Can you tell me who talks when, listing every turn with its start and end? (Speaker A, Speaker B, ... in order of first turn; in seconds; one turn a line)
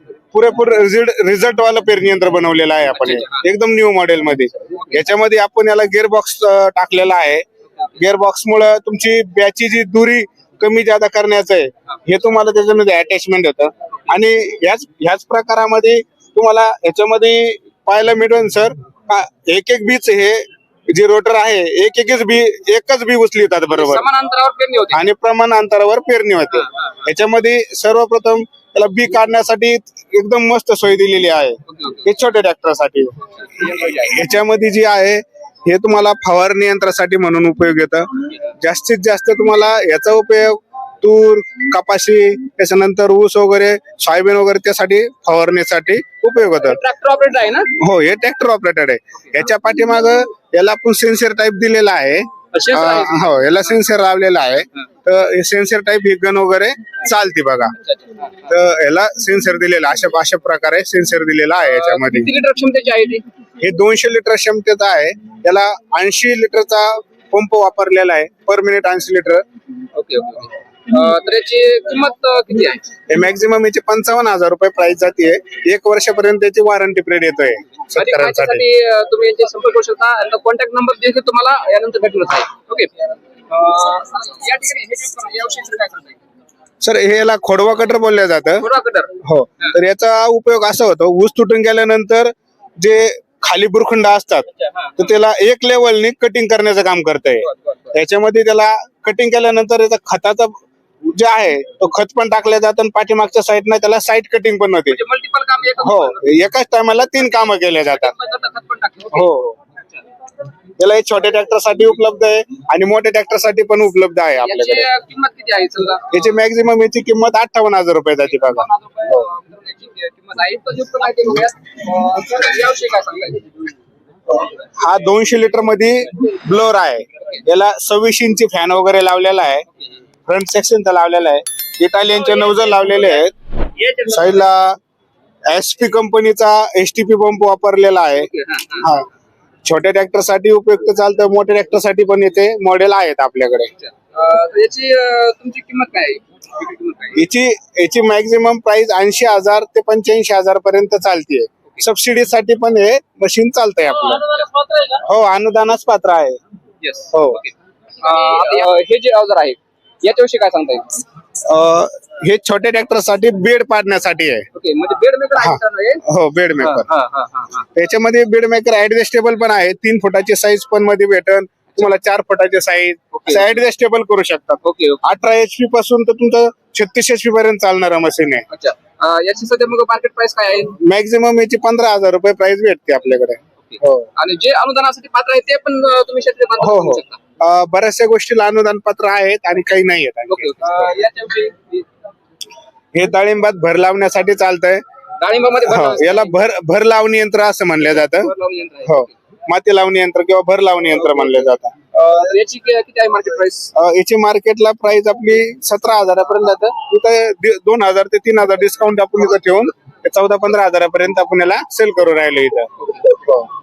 Speaker A: 0.3-7.4
Speaker B: 2.9-3.4
Speaker A: 8.0-24.0
Speaker B: 23.7-25.1
Speaker A: 24.9-46.8
Speaker B: 31.7-32.0
Speaker B: 33.4-34.2
Speaker B: 46.6-47.7
Speaker A: 47.8-57.7
Speaker B: 52.5-53.3
Speaker B: 57.9-58.3
Speaker A: 58.5-62.3
Speaker B: 61.6-63.2
Speaker A: 63.6-69.4
Speaker B: 69.9-72.9
Speaker A: 73.1-78.6
Speaker B: 78.0-86.2
Speaker A: 86.8-88.6
Speaker B: 88.6-89.7
Speaker A: 89.2-94.5
Speaker B: 94.8-95.1
Speaker A: 95.0-100.6
Speaker B: 97.4-97.9
Speaker A: 101.1-105.0
Speaker B: 104.9-106.3
Speaker A: 105.8-108.1
Speaker B: 107.9-109.3
Speaker A: 109.1-109.6
Speaker A: 110.8-114.9
Speaker B: 114.4-116.2
Speaker A: 116.1-119.2
Speaker B: 118.4-123.6
Speaker A: 124.8-129.6
Speaker A: 130.3-133.3
Speaker A: 134.0-134.8
Speaker A: 135.5-138.3
Speaker B: 138.2-138.9
Speaker A: 138.8-139.1
Speaker A: 139.6-143.7
Speaker B: 143.8-147.2
Speaker A: 147.1-156.4
Speaker B: 156.8-161.0
Speaker A: 157.1-157.4
Speaker A: 161.5-164.4
Speaker B: 164.5-166.0
Speaker A: 165.4-166.9
Speaker B: 166.6-167.7
Speaker A: 167.8-178.4
Speaker B: 173.1-173.5
Speaker B: 174.6-175.0
Speaker B: 178.5-180.8
Speaker A: 180.8-184.1
Speaker B: 183.6-187.2
Speaker A: 186.6-190.5
Speaker B: 190.3-191.8
Speaker A: 192.9-194.8
Speaker B: 195.2-196.3
Speaker A: 195.7-198.3
Speaker B: 197.8-199.1
Speaker A: 198.8-201.7
Speaker B: 201.9-203.7
Speaker A: 203.8-213.4
Speaker B: 212.8-213.1